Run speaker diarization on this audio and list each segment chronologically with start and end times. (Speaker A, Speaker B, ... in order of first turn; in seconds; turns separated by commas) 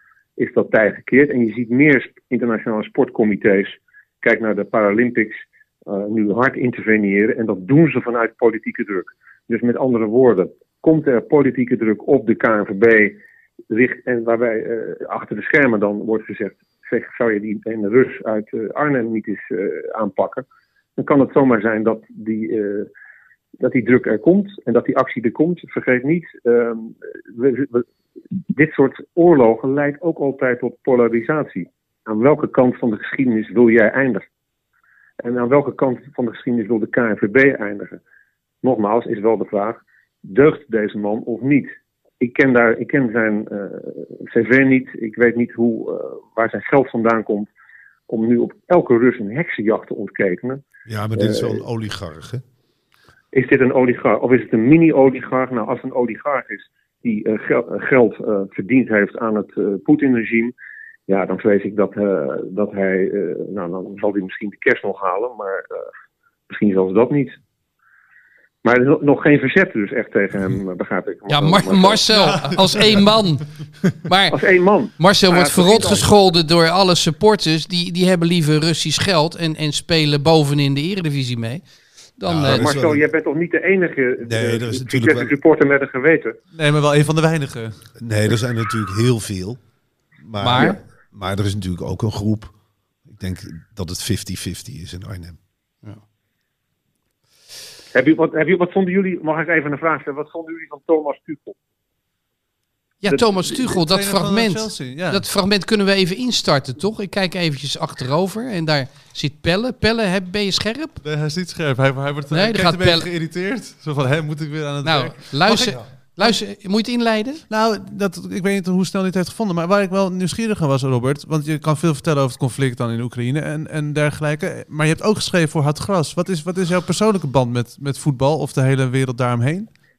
Speaker A: 0.4-13.2, Speaker A: 13.7-20.4, Speaker A: 21.0-22.9, Speaker A: 23.6-27.9, Speaker A: 28.5-34.3, Speaker A: 35.2-38.0, Speaker A: 38.6-47.5, Speaker A: 48.1-50.6, Speaker B: 50.9-52.4, Speaker A: 51.2-51.6, Speaker A: 53.3-60.5, Speaker A: 61.1-65.9, Speaker A: 66.5-67.4, Speaker A: 68.6-72.0, Speaker C: 71.3-73.5, Speaker C: 74.0-74.4, Speaker A: 74.3-76.1, Speaker C: 75.0-81.6, Speaker C: 82.2-82.7, Speaker B: 82.3-83.0, Speaker A: 82.4-86.4, Speaker B: 84.2-85.3, Speaker D: 86.5-87.8, Speaker B: 88.0-89.6, Speaker B: 90.2-92.5, Speaker C: 90.4-90.8, Speaker B: 93.1-95.4, Speaker A: 97.9-101.6, Speaker C: 103.0-111.0, Speaker D: 103.6-105.2, Speaker D: 111.0-115.8, Speaker C: 112.3-113.1, Speaker C: 114.8-117.4, Speaker D: 117.5-129.7